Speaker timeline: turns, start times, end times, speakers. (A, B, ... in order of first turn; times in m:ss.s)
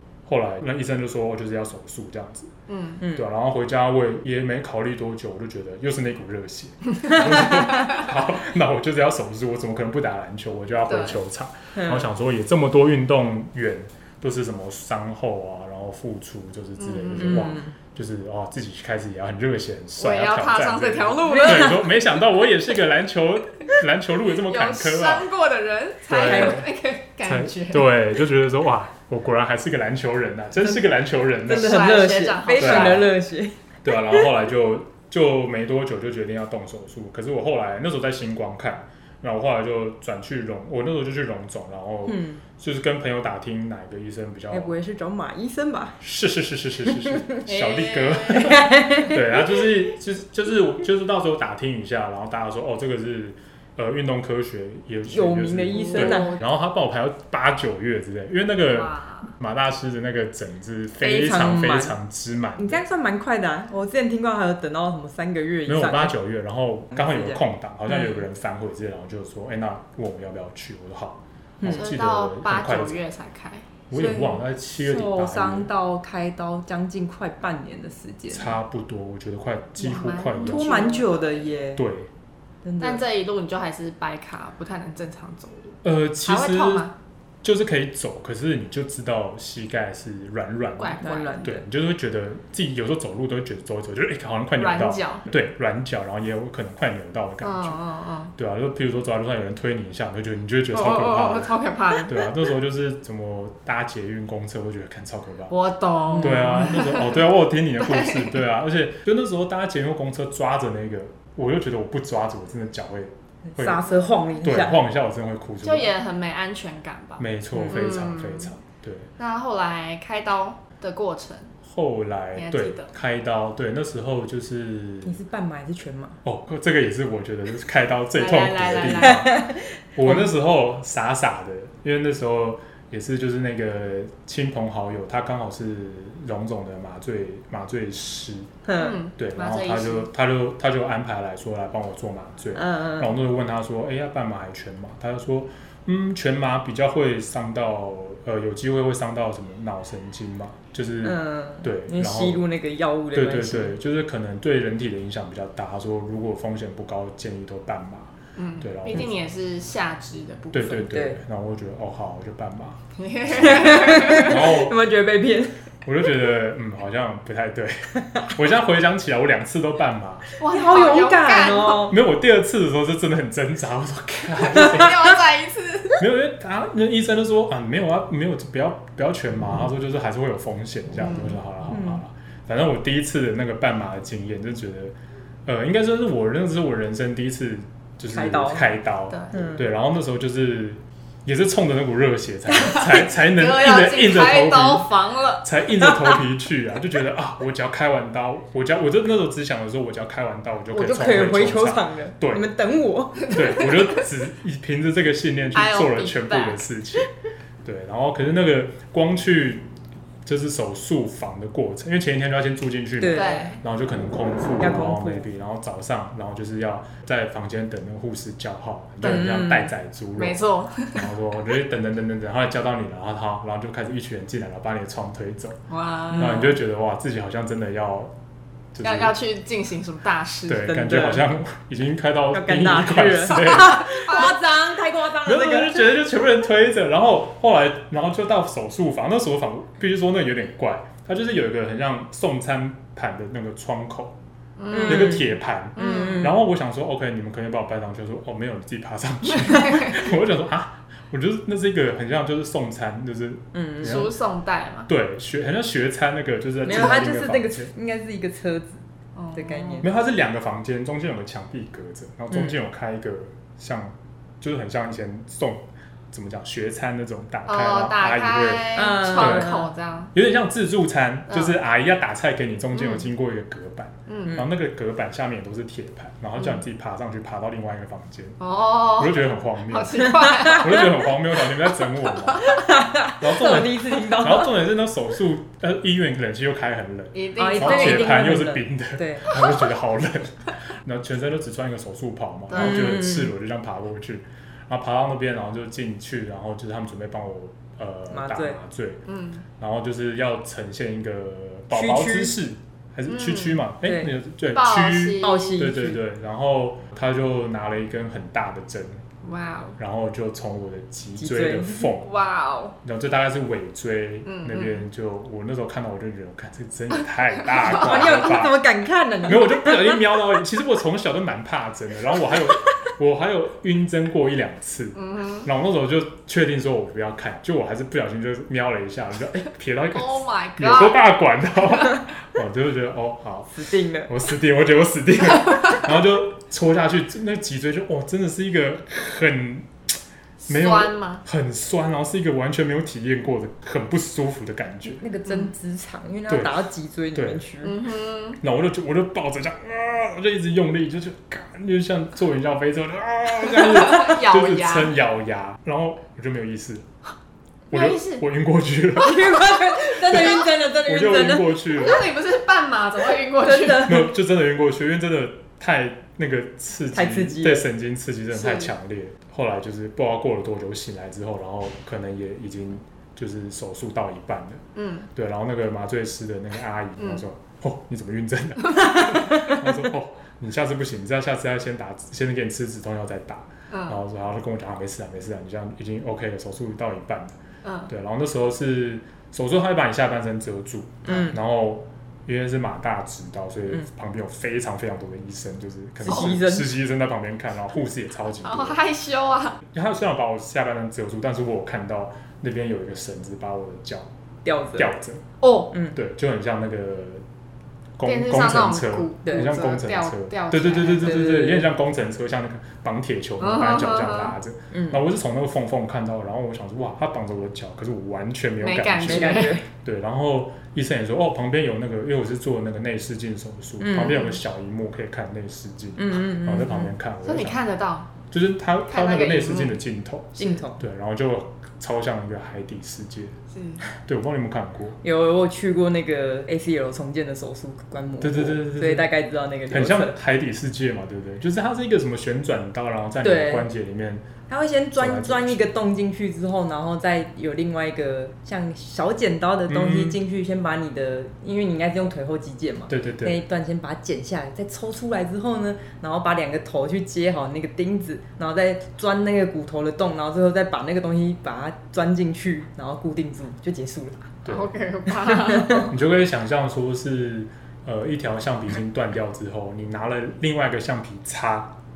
0:00.2-0:02.5 A
0:02.7-0:03.0 B
0:03.0-0:03.3 C
0:03.1-0:25.3 A
0:07.6-0:08.0 B
0:10.9-0:11.2 B
0:11.8-0:12.1 C
0:16.8-0:17.5 B
0:17.2-0:17.7 C
0:20.0-0:21.9 B
0:21.2-0:21.8 C
0:24.4-0:27.9 B
0:26.1-0:26.7 A
0:26.2-0:26.6 C
0:27.2-0:31.8 A
0:31.4-0:33.1 B
0:31.4-0:34.3 C
0:32.6-0:33.1 A
0:33.8-0:44.7 A
0:42.1-0:42.4 C
0:44.5-0:46.0 C
0:46.0-1:02.8 A
0:47.0-0:47.3 C
0:47.4-0:48.7 B
0:48.4-0:49.2 C
0:55.1-0:56.4 C
0:55.7-0:56.4 B
0:58.7-0:59.3 B
1:01.0-1:02.0 C
1:02.6-1:06.2 C
1:05.6-1:13.0 A
1:06.9-1:08.2 C
1:11.6-1:11.9 C
1:11.6-1:13.6 B
1:13.9-1:15.7 A
1:13.9-1:18.6 C
1:18.3-1:20.9 A
1:19.8-1:21.6 B
1:20.4-1:21.8 C
1:21.7-1:22.1 A
1:22.6-1:23.0 C
1:22.8-1:26.9 B
1:25.8-1:26.9 A
1:27.4-1:37.8 A
1:30.8-1:31.4 B
1:31.0-1:31.6 C
1:34.6-1:35.3 B
1:37.4-1:38.3 B
1:38.4-1:45.5 A
1:40.7-1:42.3 B
1:45.5-1:48.4 B
1:46.1-1:46.6 C
1:46.2-1:53.8 A
1:53.5-1:54.8 C
1:54.4-1:55.9 A
1:55.6-1:58.5 B
1:57.2-1:59.1 A
1:59.2-2:01.5 B
2:01.6-2:05.2 A
2:02.4-2:02.9 B
2:05.0-2:06.2 C
2:06.2-2:18.5 A
2:08.1-2:09.3 B
2:09.0-2:10.2 C
2:18.6-2:19.0 C
2:18.8-2:20.1 B
2:19.2-2:32.4 A
2:22.5-2:23.2 C
2:31.0-2:33.7 C
2:33.1-2:39.1 A
2:38.4-2:40.8 B
2:40.5-2:44.8 A
2:40.8-2:41.2 C
2:43.0-2:44.5 B
2:43.4-2:45.6 C
2:45.8-2:50.3 A
2:48.0-2:48.3 C
2:50.4-2:51.9 B
2:50.5-2:52.0 C
2:51.9-2:55.2 A
2:54.3-2:56.0 B
2:56.0-3:04.9 A
3:01.0-3:01.4 B
3:01.7-3:02.0 C
3:05.4-3:22.5 A
3:08.1-3:08.7 C
3:09.3-3:09.6 C
3:12.7-3:15.4 B
3:15.8-3:16.2 C
3:20.7-3:23.4 C
3:23.2-3:24.0 B
3:23.3-3:27.1 A
3:25.5-3:26.6 B
3:27.6-3:29.6 A
3:30.2-3:40.4 A
3:33.0-3:33.5 C
3:33.1-3:33.6 B
3:34.6-3:35.2 C
3:39.0-3:39.7 C
3:40.2-3:41.1 B
3:40.9-3:45.6 A
3:45.7-3:46.5 B
3:46.1-3:46.5 C
3:46.1-3:48.1 A
3:48.7-3:49.1 A
3:48.8-3:50.7 B
3:50.5-3:54.1 A
3:50.6-3:51.3 C
3:52.3-3:55.9 C
3:53.5-3:54.4 B
3:55.2-4:04.2 A
4:04.6-4:06.3 B
4:04.7-4:05.2 C
4:04.8-4:14.1 A
4:05.8-4:06.3 C
4:09.3-4:10.0 B
4:13.5-4:14.1 C
4:13.8-4:14.9 B
4:14.9-4:17.7 A
4:16.6-4:18.8 C
4:19.2-4:19.8 B
4:19.3-4:19.9 C
4:19.8-4:29.5 A
4:27.5-4:30.1 B
4:28.7-4:29.7 C
4:30.1-4:38.4 A
4:31.3-4:31.6 B
4:32.7-4:33.0 B
4:34.1-4:34.4 B
4:38.4-4:41.2 B
4:39.0-4:42.6 A
4:42.1-4:42.4 B
4:42.4-4:44.6 C
4:43.2-4:59.0 A
4:47.1-4:48.2 B
4:47.4-4:49.3 C
4:52.5-4:53.0 B
4:52.5-4:53.3 C
4:58.1-4:58.6 C
4:59.1-4:59.4 B
4:59.6-5:09.0 A
5:01.7-5:02.4 C
5:03.1-5:03.6 B
5:03.8-5:04.1 C
5:04.5-5:05.6 B
5:05.2-5:06.0 C
5:09.2-5:09.8 B
5:09.8-5:12.1 A
5:11.2-5:11.9 C
5:12.0-5:12.8 B
5:12.8-5:18.6 A
5:14.2-5:14.8 B
5:17.5-5:18.2 B
5:17.6-5:20.0 C
5:19.2-5:39.7 A
5:25.0-5:25.5 B
5:29.9-5:31.0 B
5:33.5-5:34.1 C
5:40.4-5:41.2 B
5:40.5-5:45.0 A
5:44.8-5:47.8 C
5:45.2-5:45.5 B
5:46.3-5:47.4 A
5:47.6-5:48.4 B
5:48.4-5:56.8 A
5:53.5-5:54.9 B
5:57.7-5:59.4 A
5:57.7-5:58.2 B
5:59.0-6:01.6 C
6:00.0-6:02.1 A
6:01.7-6:04.0 B
6:03.4-6:04.1 C
6:03.8-6:14.6 A
6:06.9-6:07.7 C
6:08.3-6:08.7 B
6:14.8-6:15.1 B
6:15.1-6:27.4 A
6:17.0-6:17.2 B
6:23.7-6:24.0 B
6:27.6-6:27.9 B
6:27.9-6:38.8 A
6:31.0-6:31.4 C
6:36.0-6:36.7 C
6:38.4-6:39.6 B
6:39.7-6:44.1 A
6:44.4-6:44.9 C
6:44.8-6:45.2 A
6:45.4-6:45.7 B
6:45.9-6:47.2 A
6:48.0-7:07.6 A
6:48.0-6:51.4 B
6:51.0-6:51.7 C
6:53.4-6:54.4 B
6:54.7-6:55.0 C
6:58.6-6:59.6 B
6:59.0-6:59.6 C
7:03.8-7:04.4 C
7:06.0-7:06.9 C
7:07.2-7:08.1 B
7:08.3-7:13.4 A
7:08.9-7:09.8 B
7:10.4-7:10.8 C
7:13.5-7:13.8 B
7:14.0-7:15.0 A
7:15.0-7:20.2 C
7:18.2-7:19.1 A
7:19.7-7:24.3 A
7:23.2-7:23.7 C
7:24.5-7:44.3 C
7:24.9-7:25.7 A
7:29.7-7:30.2 A
7:32.9-7:33.4 A
7:44.4-7:44.7 A
7:44.5-7:45.9 B
7:45.4-7:45.8 C
7:45.8-7:51.8 A